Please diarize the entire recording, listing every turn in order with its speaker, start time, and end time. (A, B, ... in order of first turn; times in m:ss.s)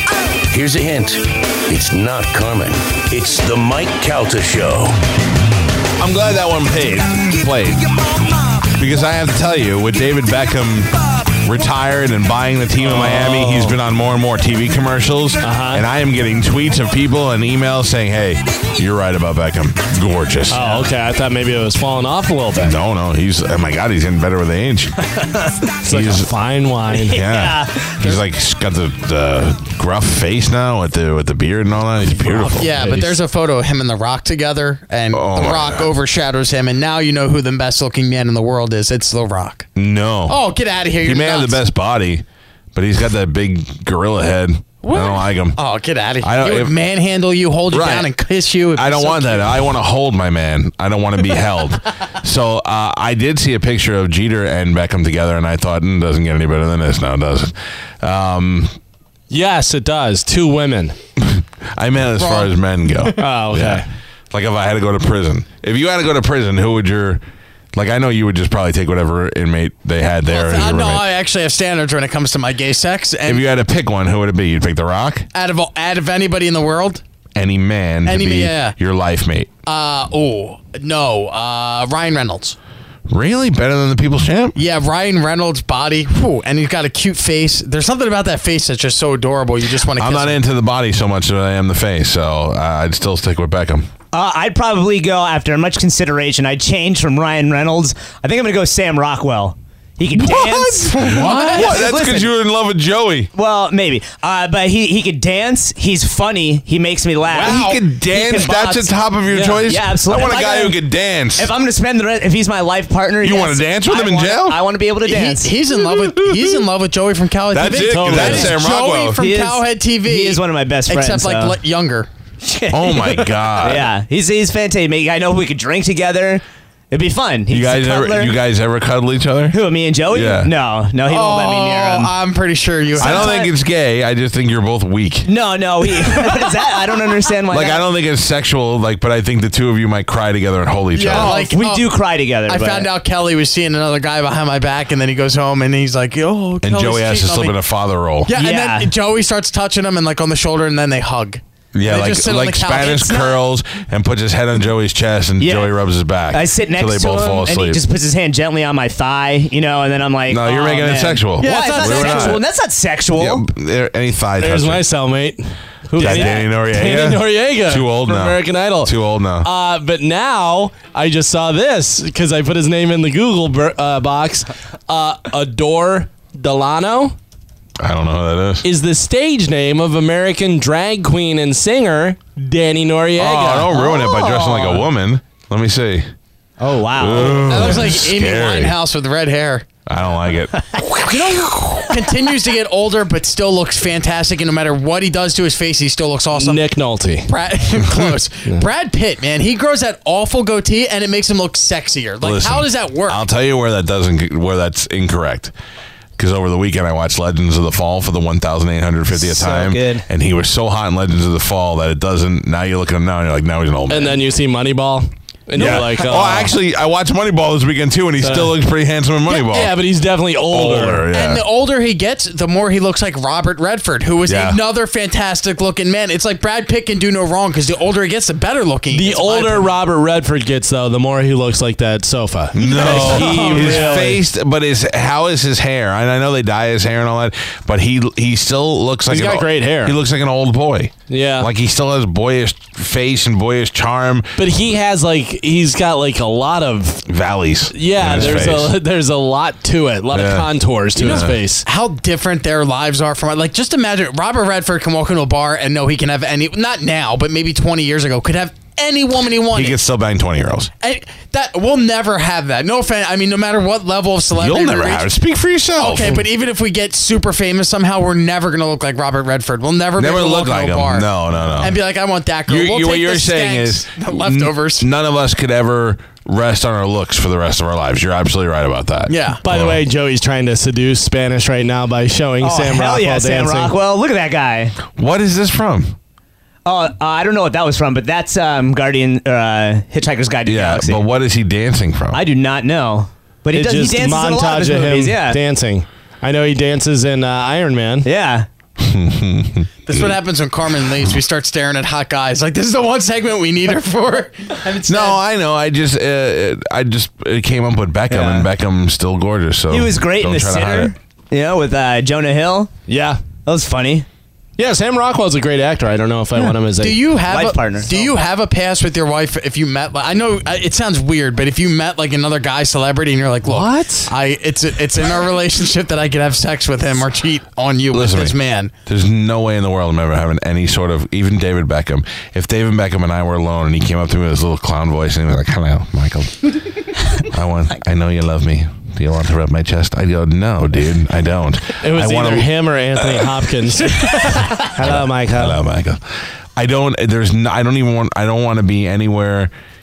0:00.5-0:04.9 A
0:06.0-0:07.9 B
0:08.7-0:20.9 B
0:12.8-0:13.8 C
0:15.4-0:15.8 C
0:20.5-0:22.7 C
0:22.6-0:24.9 B
0:25.8-0:27.1 C
0:25.8-0:26.3 B
0:26.9-0:28.2 D
0:27.0-0:33.0 B
0:32.2-0:33.1 C
0:32.6-0:39.7 E
0:35.1-0:35.9 B
0:39.8-0:40.4 B
0:40.2-0:41.6 E
0:41.0-0:45.6 B
0:44.8-0:49.7 E
0:46.2-0:46.7 B
0:47.7-0:48.1 B
0:48.7-0:58.7 B
0:59.3-1:01.0 C
1:01.2-1:07.2 B
1:02.2-1:03.2 E
1:03.2-1:03.8 C
1:07.7-1:11.1 B
1:10.2-1:13.4 E
1:13.2-1:15.3 B
1:15.3-1:17.0 E
1:17.4-1:19.5 B
1:18.0-1:18.8 E
1:19.6-1:22.6 E
1:23.1-1:24.6 B
1:24.5-1:30.4 E
1:29.9-1:33.9 B
1:34.1-1:42.3 D
1:40.2-1:43.3 B
1:40.9-1:41.9 E
1:43.3-1:48.9 D
1:47.3-1:48.4 E
1:47.3-1:51.5 B
1:49.3-1:49.6 C
1:49.6-1:55.5 D
1:53.2-1:54.6 B
1:55.0-2:02.1 E
1:55.7-1:56.6 B
1:57.5-1:59.2 B
1:57.8-1:58.5 C
1:59.2-2:01.6 D
2:02.4-2:08.4 D
2:02.7-2:03.9 B
2:07.5-2:10.5 B
2:09.5-2:12.1 D
2:11.0-2:13.4 E
2:12.9-2:13.5 D
2:13.0-2:15.3 B
2:15.2-2:17.8 D
2:17.5-2:21.3 B
2:20.9-2:21.9 E
2:21.0-2:22.9 D
2:22.5-2:27.6 E
2:26.6-2:28.3 B
2:28.2-2:33.4 E
2:28.3-2:28.9 D
2:31.7-2:37.8 B
2:35.4-2:43.4 D
2:40.3-2:42.4 B
2:41.4-2:42.4 E
2:43.1-2:44.8 B
2:44.4-2:57.2 C
2:45.9-2:46.4 D
2:46.0-2:49.5 B
2:57.8-2:58.6 B
2:58.6-3:03.7 C
3:03.2-3:06.1 B
3:03.7-3:04.9 D
3:06.6-3:07.7 D
3:06.9-3:08.8 B
3:07.4-3:09.6 E
3:09.9-3:10.6 B
3:10.8-3:11.9 D
3:11.0-3:16.7 E
3:16.3-3:17.3 C
3:17.2-3:23.2 E
3:22.2-3:25.5 B
3:26.2-3:34.2 B
3:29.1-3:30.0 D
3:33.9-3:36.5 C
3:35.5-3:35.9 D
3:35.6-3:39.8 B
3:38.2-3:38.6 C
3:39.3-3:41.0 C
3:40.5-3:41.4 B
3:41.1-3:49.7 E
3:44.3-3:44.6 B
3:48.9-3:54.2 C
3:52.5-4:04.3 B
3:59.1-4:00.0 C
4:01.1-4:01.5 C
4:04.4-4:07.0 C
4:07.0-4:08.7 B
4:07.7-4:11.6 C
4:10.1-4:11.4 B
4:11.0-4:19.8 E
4:19.5-4:20.7 B
4:20.8-4:25.1 E
4:24.3-4:26.2 B
4:25.8-4:34.9 E
4:30.0-4:31.8 B
4:32.5-4:39.8 B
4:39.1-4:39.4 E
4:39.4-4:43.7 C
4:42.4-4:44.8 D
4:44.9-4:45.9 B
4:46.6-4:51.0 D
4:50.4-4:52.2 B
4:52.1-4:55.4 D
4:53.5-4:58.1 C
4:58.0-4:58.5 D
4:58.8-5:00.1 B
4:59.8-5:05.2 E
5:04.8-5:10.9 B
5:08.1-5:08.5 D
5:09.7-5:12.7 D
5:12.9-5:13.3 C
5:13.4-5:14.0 D
5:14.6-5:17.1 C
5:16.8-5:28.7 E
5:17.3-5:18.1 D
5:23.5-5:24.1 C
5:27.9-5:36.5 B
5:37.2-5:42.5 B
5:41.8-5:45.6 C
5:44.6-5:46.0 B
5:46.6-5:49.5 B